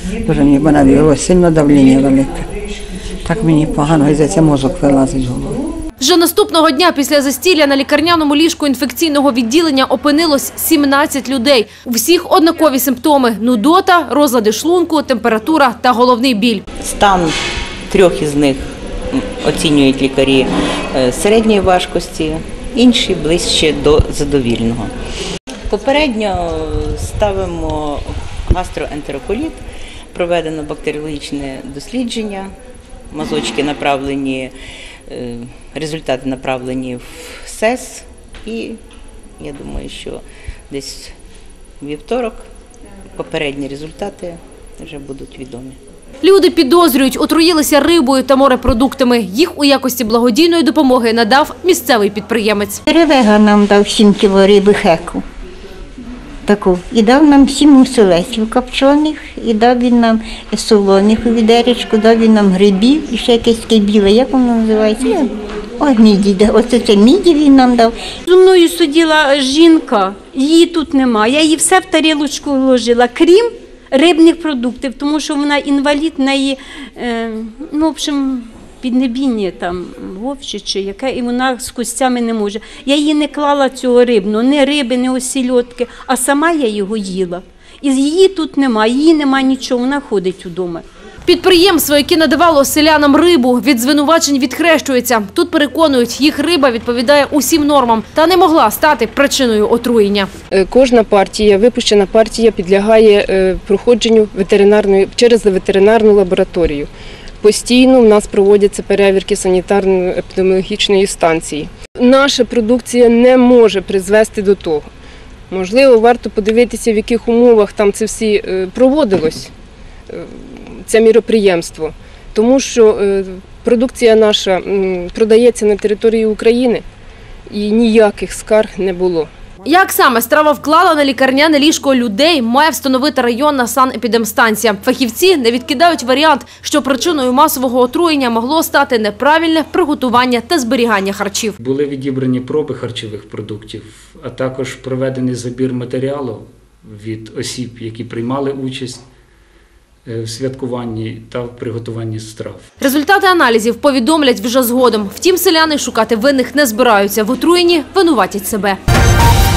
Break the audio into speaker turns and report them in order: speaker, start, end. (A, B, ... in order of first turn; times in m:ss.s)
0:00.2-0:02.5 A
0:03.2-0:05.6 A
0:06.0-0:16.6 B
0:16.8-0:17.3 C
0:17.9-0:18.6 C
0:19.1-0:24.9 C
0:25.7-0:29.6 C
0:30.1-0:32.5 C
0:33.1-0:34.5 C
0:35.1-0:38.8 C
0:39.4-0:41.1 C
0:41.8-0:42.5 C
0:43.2-0:45.8 C
0:46.2-0:52.8 B
0:52.9-0:55.2 D
0:56.5-1:08.0 D
1:08.3-1:30.8 E
1:31.3-1:40.3 B
1:40.5-1:46.9 F
1:47.4-1:54.9 F
1:55.5-1:59.5 F
2:00.1-2:06.8 F
2:07.5-2:09.3 F
2:09.6-2:21.6 B
2:21.6-2:29.1 G
2:30.1-2:32.6 G
2:32.8-2:38.8 B